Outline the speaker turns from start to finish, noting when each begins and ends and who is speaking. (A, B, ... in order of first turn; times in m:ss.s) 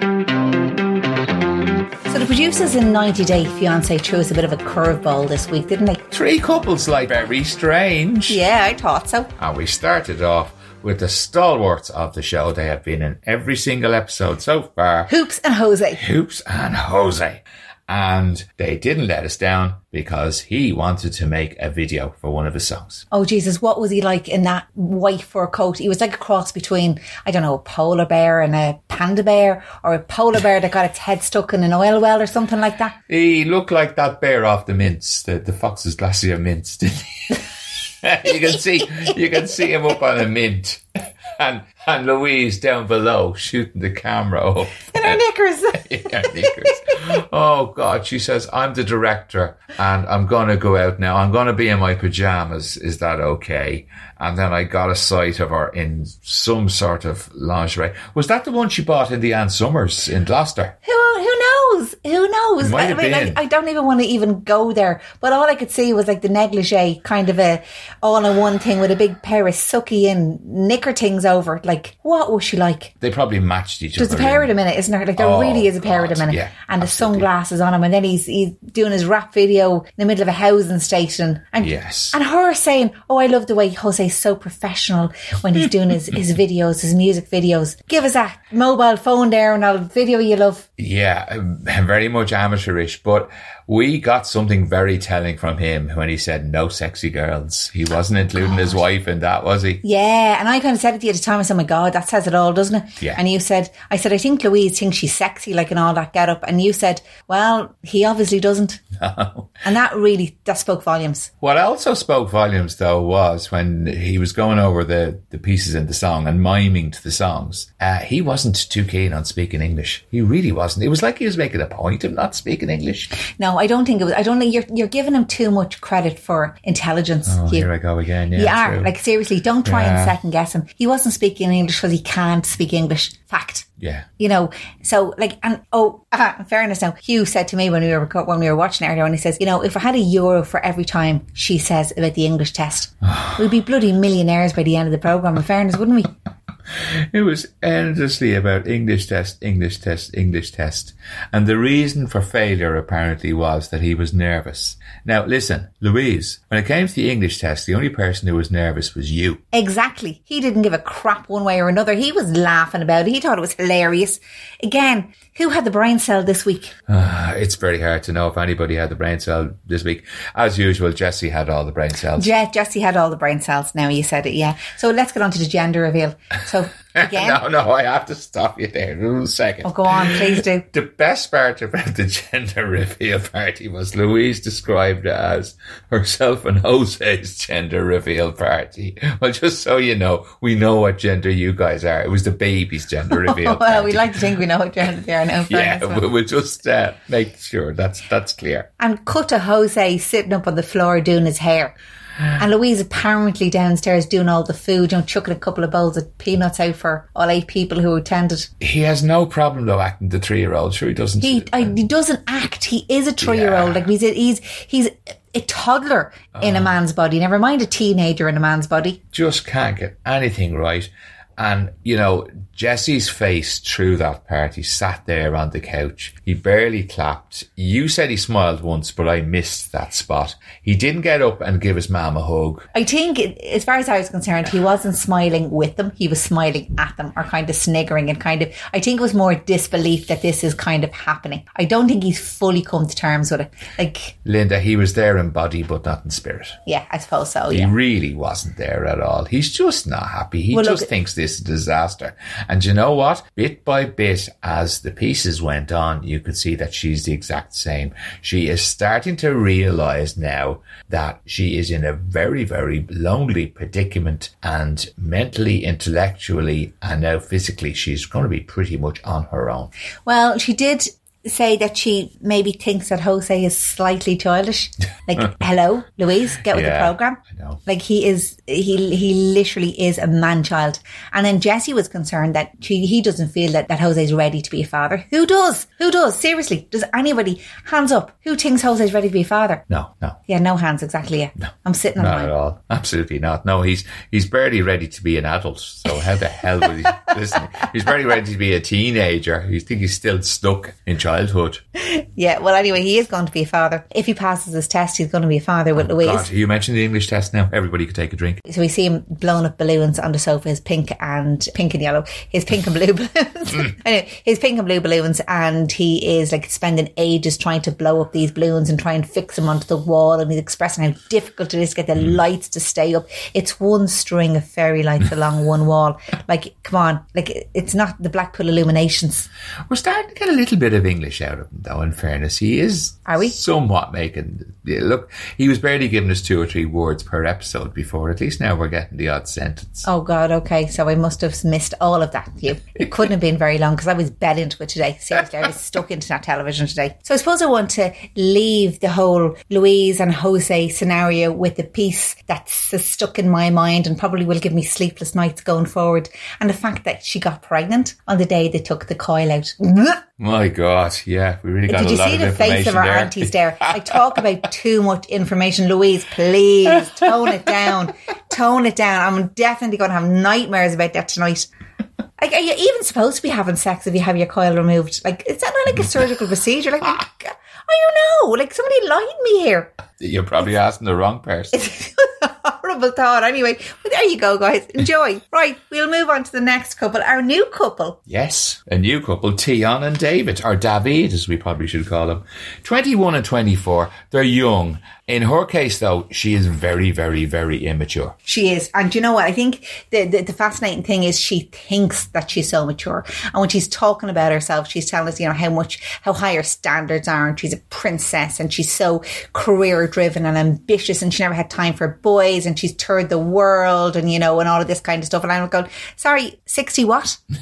0:02.1-0:06.0 A
0:06.1-0:08.4 B
0:08.3-0:09.3 A
0:09.4-0:15.1 B
0:15.1-0:16.0 A
0:16.0-0:23.0 B
0:23.1-0:33.0 A
0:33.1-0:45.2 B
0:44.9-0:46.8 A
0:45.7-1:00.8 B
1:00.8-1:13.0 A
1:02.6-1:03.4 B
1:13.0-1:14.5 B
1:14.0-1:30.7 A
1:15.2-1:17.3 B
1:21.6-1:22.2 B
1:30.8-1:39.8 B
1:39.8-1:48.8 A
1:48.9-1:49.6 B
1:49.6-1:51.3 A
1:51.4-2:03.1 B
2:03.4-2:07.7 A
2:07.3-2:08.9 B
2:08.3-2:13.7 A
2:09.6-2:10.2 B
2:13.8-2:14.1 B
2:14.2-2:26.1 A
2:23.0-2:23.4 B
2:26.8-2:39.4 B
2:39.5-2:46.7 A
2:46.9-2:52.3 B
2:52.2-2:57.4 A
2:57.0-3:14.4 B
2:59.6-3:00.6 A
3:13.1-3:16.0 A
3:15.4-3:18.7 B
3:18.8-3:21.7 A
3:22.4-3:28.5 A
3:28.6-3:31.8 B
3:31.2-3:39.0 A
3:33.2-3:33.9 B
3:36.4-3:36.7 B
3:39.1-3:52.7 B
3:52.7-4:04.2 A
4:04.2-4:06.6 B
4:06.7-4:07.7 A
4:07.5-4:29.7 B
4:10.5-4:10.9 A
4:30.1-4:49.6 A
4:36.5-4:37.6 B
4:49.7-4:50.2 B
4:50.3-4:52.3 A
4:52.0-5:01.6 B
5:01.8-5:06.3 A
5:05.8-5:08.4 B
5:08.5-5:29.3 A
5:29.7-5:39.9 B
5:33.1-5:33.4 A
5:39.9-6:00.0 A
6:00.2-6:04.2 B
6:01.7-6:11.5 A
6:12.2-6:19.7 A
6:20.0-6:21.6 B
6:21.5-6:28.0 A
6:28.1-6:38.2 B
6:38.2-6:57.2 A